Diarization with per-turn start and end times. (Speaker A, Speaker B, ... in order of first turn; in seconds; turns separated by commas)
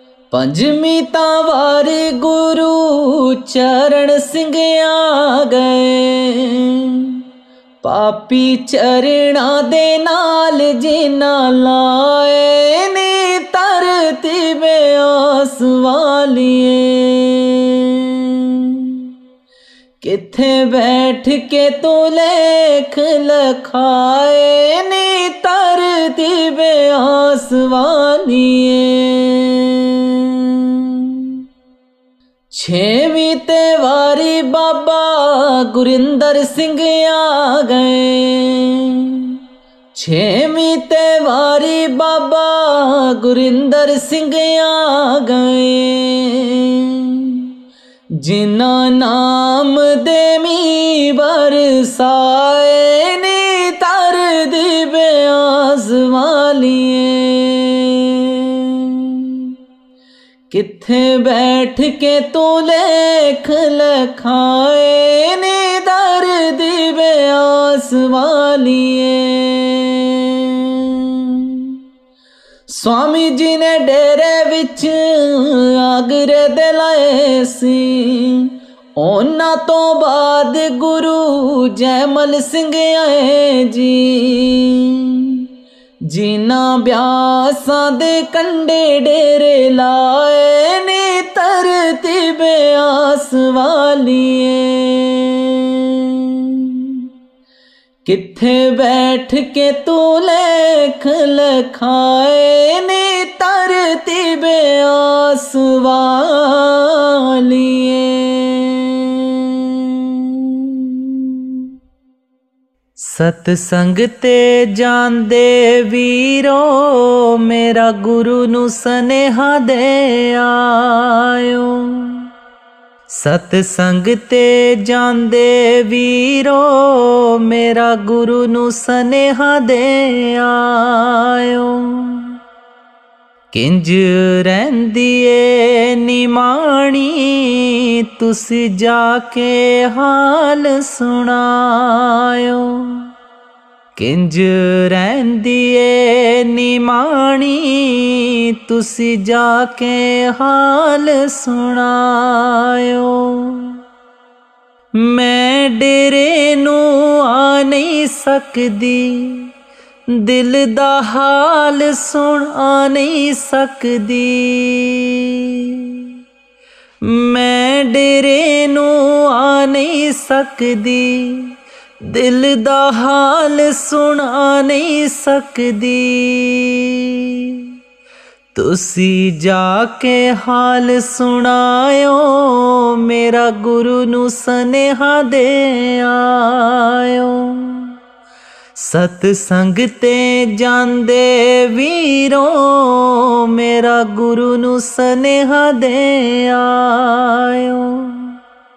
Speaker A: 0.3-7.2, Speaker A: 7.8-19.1, Speaker A: 20.0-31.4, Speaker A: 32.5-39.4, Speaker A: 39.9-47.5, Speaker A: 48.2-59.5, Speaker A: 60.5-71.8, Speaker A: 72.7-85.5, Speaker A: 86.1-97.1, Speaker A: 98.0-111.7, Speaker A: 113.0-122.2, Speaker A: 123.1-132.3, Speaker A: 133.5-143.1, Speaker A: 144.0-153.8, Speaker A: 155.0-159.5, Speaker A: 160.1-166.1, Speaker A: 167.0-177.7, Speaker A: 178.5-187.9, Speaker A: 188.8-198.3